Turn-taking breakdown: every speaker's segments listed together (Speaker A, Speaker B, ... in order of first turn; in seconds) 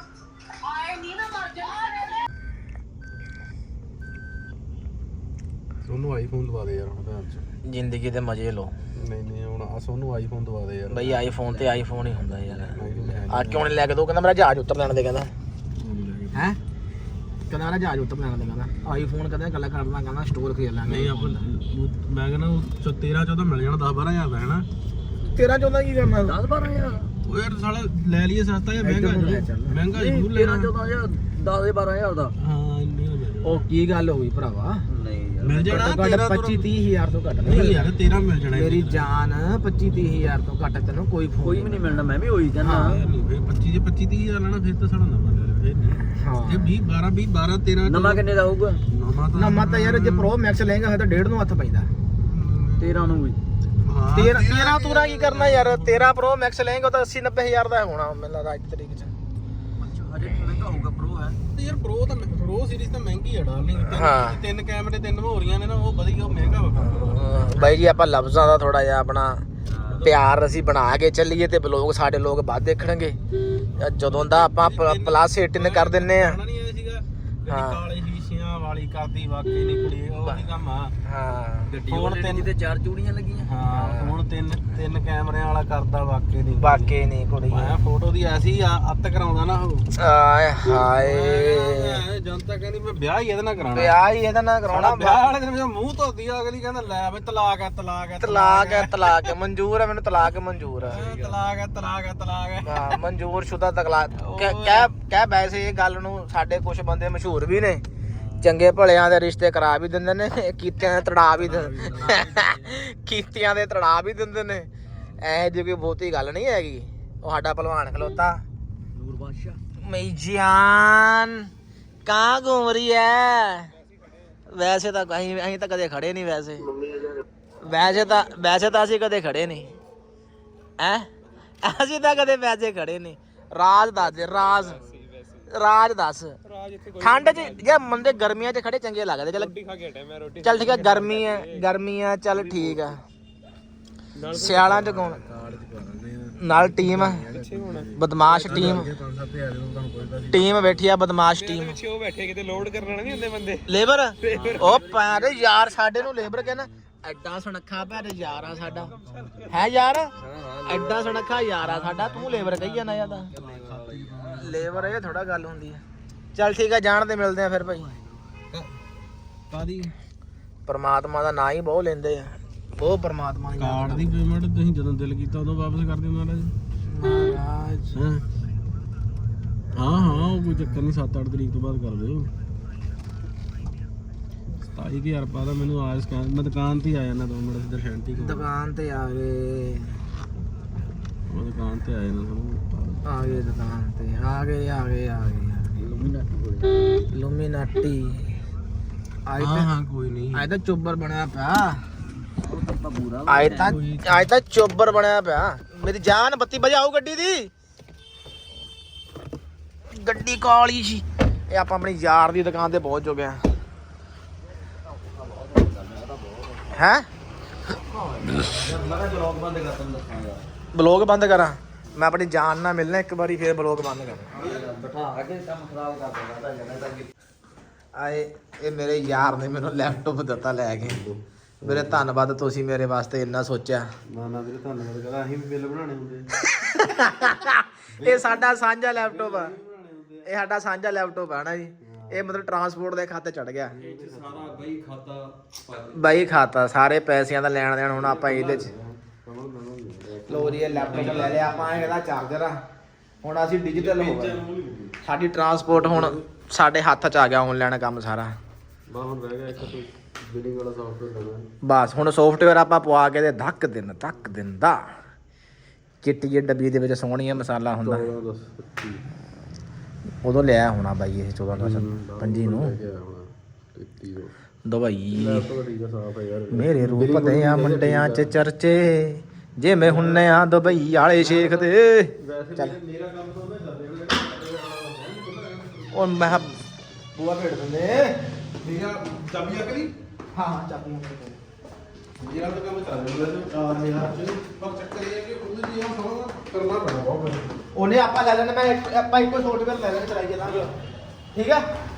Speaker A: 5.9-7.5, 9.0-11.8, 12.4-13.7, 15.8-16.4, 20.9-24.7, 27.2-30.7, 32.4-33.7, 35.4-36.7, 37.4-39.0, 42.7-48.3, 48.8-50.3, 52.2-53.2, 53.8-56.1, 61.5-67.9, 69.8-70.2, 73.9-81.0, 81.7-82.5, 83.4-86.9, 87.5-89.9, 90.7-94.0, 94.7-99.3, 100.8-103.0, 104.2-104.9, 111.5-112.4, 134.6-135.2, 136.5-137.4, 139.3-141.5, 142.3-142.9, 144.2-150.4, 151.4-153.6, 154.3-154.8, 158.5-159.6, 161.6-165.0, 169.5-169.9, 173.6-176.6, 177.9-178.2, 179.8-182.3, 184.6-188.5, 191.3-193.1, 199.4-200.5, 203.6-204.3, 224.4-224.7, 230.8-232.1, 234.1-236.3, 237.9-240.3, 241.8-242.4, 243.7-244.7, 247.9-252.1, 253.7-255.0, 255.6-256.2, 258.9-261.5, 267.8-269.1, 271.5-274.3, 275.1-278.3, 279.7-286.5, 288.6-289.9, 292.2-297.5, 300.4-300.7
Speaker B: 7.7-8.7, 10.9-12.8, 13.3-15.3, 16.3-16.6, 17.5-21.4, 25.3-26.4, 28.8-30.1, 33.4-34.8, 35.7-37.9, 38.5-42.0, 42.6-43.0, 46.1-46.8, 49.3-51.9, 54.1-59.1, 63.8-64.4, 66.7-69.5, 70.0-73.2, 73.8-76.4, 77.5-77.8, 81.0-81.8, 83.5-84.2, 86.5-87.8, 90.0-91.9, 93.7-95.2, 98.2-101.0, 102.6-107.8, 108.4-118.5, 119.8-121.5, 122.0-123.7, 124.5-126.7, 127.6-129.7, 130.8-131.1, 131.6-134.8, 135.5-136.4, 137.0-139.6, 140.4-143.0, 144.3-145.2, 146.4-147.3, 147.9-148.9, 150.3-151.8, 153.7-158.9, 159.5-163.3, 164.3-165.8, 166.3-167.9, 170.7-174.2, 176.9-178.0, 179.8-180.8, 188.1-190.0, 193.1-195.8, 197.1-198.4, 199.2-199.7, 200.3-201.8, 203.3-207.5, 209.9-213.4, 216.7-217.1, 220.7-224.4, 227.9-231.0, 231.6-233.9, 236.4-239.6, 240.2-243.8, 245.9-248.7, 250.3-252.6, 253.2-254.4, 255.0-258.3, 261.6-264.8, 266.0-268.1, 270.2-272.7, 274.6-275.5, 276.5-282.8, 285.9-286.6, 287.1-288.4, 290.3-291.4, 297.7-300.7, 301.3-301.6
Speaker C: 26.3-27.1, 30.1-32.4, 34.9-35.8, 41.4-43.0, 47.8-48.8, 52.8-53.4, 59.8-61.4, 69.7-70.0, 81.8-83.5, 101.0-101.3, 111.6-112.6, 118.9-119.6, 154.3-155.2, 160.2-161.4, 163.3-164.5, 195.8-197.0, 202.4-203.8, 215.1-216.8, 217.8-220.5, 224.4-227.1, 243.8-245.9